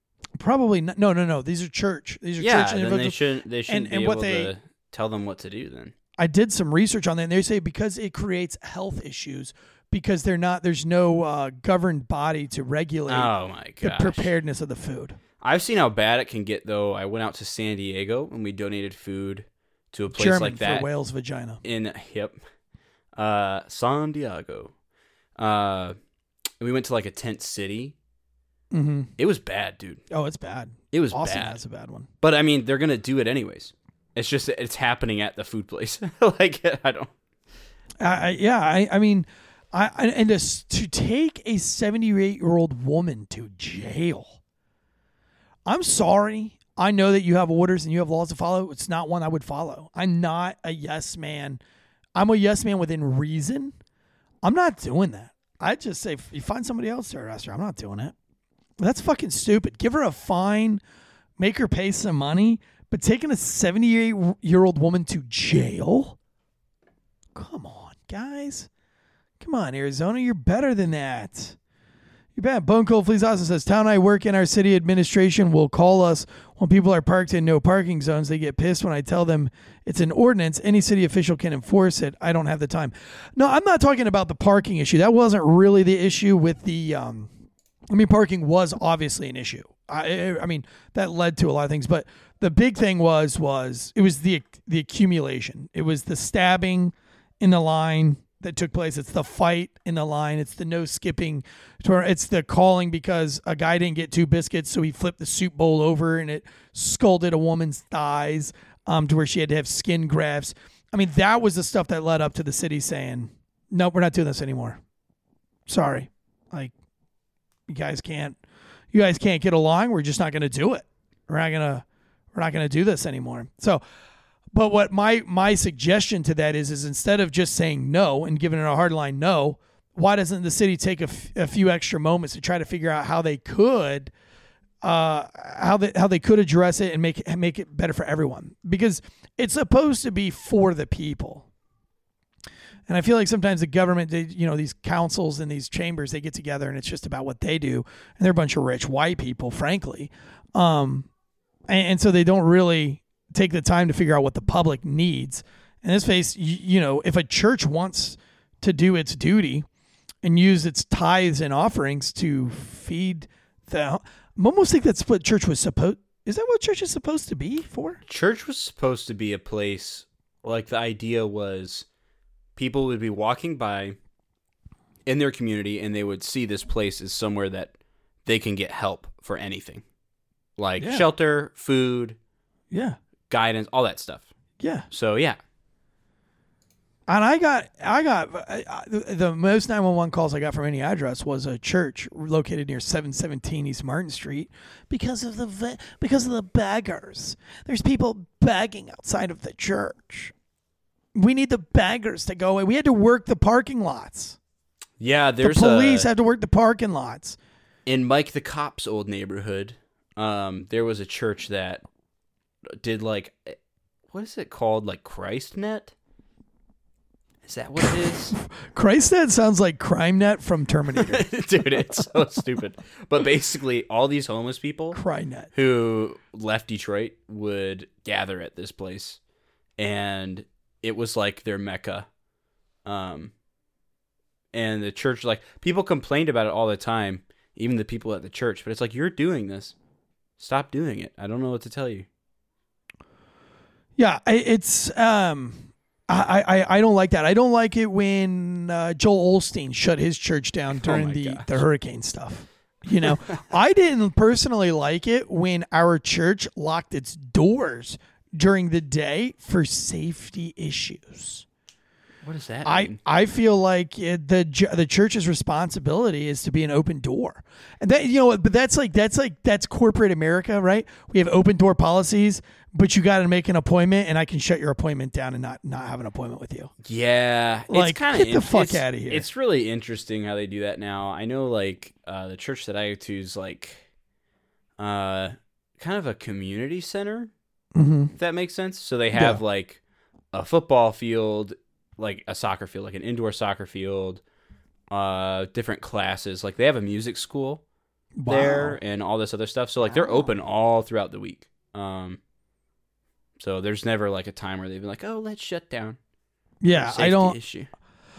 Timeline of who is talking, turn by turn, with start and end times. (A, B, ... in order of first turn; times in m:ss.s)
0:00.4-0:04.5 A
0:02.4-0:05.9 B
0:06.2-0:15.2 A
0:13.1-0:14.3 B
0:15.4-0:20.9 B
0:20.1-0:21.6 A
0:21.6-0:22.4 B
0:23.2-0:24.7 B
0:25.4-0:26.0 B
0:26.6-0:27.9 B
0:28.7-0:29.1 A
0:29.2-0:30.0 B
0:30.1-0:32.1 A
0:30.9-0:31.6 B
0:32.2-0:37.1 B
0:38.0-0:44.4 A
0:45.6-0:51.6 A
0:52.2-0:53.7 A
0:54.4-0:58.1 A
0:58.8-1:00.8 A
1:01.4-1:06.2 A
1:07.3-1:08.7 A
1:09.4-1:11.6 A
1:12.3-1:27.3 A
1:27.9-1:54.8 A
1:55.7-1:56.7 A
1:57.7-1:58.4 A
1:58.9-2:03.8 A
2:04.5-2:14.1 A
2:14.8-2:21.4 A
2:22.9-2:31.1 A
2:31.7-2:39.7 A
2:40.2-2:48.0 A
2:48.1-2:51.8 B
2:52.6-2:54.0 B
2:55.0-2:57.7 B
2:58.2-2:59.8 B
3:00.6-3:02.2 B
3:00.8-3:01.0 A
3:02.7-3:03.0 A
3:03.3-3:04.3 B
3:04.6-3:04.9 A
3:04.9-3:05.4 B
3:07.1-3:20.3 A
3:21.1-3:24.4 A
3:25.0-3:26.1 B
3:25.4-3:27.4 A
3:27.8-3:31.8 B
3:32.8-3:33.6 B
3:34.1-3:35.9 B
3:37.4-3:38.4 B
3:37.8-3:41.3 A
3:41.0-3:45.0 B
3:44.9-3:45.5 A
3:45.5-3:49.2 B
3:49.8-3:52.1 B
3:52.8-3:53.3 B
3:54.5-3:59.7 B
4:00.4-4:02.1 B
4:04.0-4:21.4 A
4:10.8-4:11.6 B
4:13.0-4:13.4 B
4:22.2-4:23.0 B
4:22.6-4:36.7 A
4:36.8-4:43.8 B
4:37.7-4:39.2 A
4:44.8-4:47.3 B
4:47.7-4:48.1 A
4:48.2-4:49.8 B
4:49.1-4:49.4 A
4:50.3-4:54.2 B
4:54.9-4:57.6 B
4:58.2-4:58.8 A
4:58.2-5:02.2 B
4:59.9-5:00.3 A
5:03.4-5:06.0 B
5:06.6-5:07.4 A
5:06.7-5:07.7 B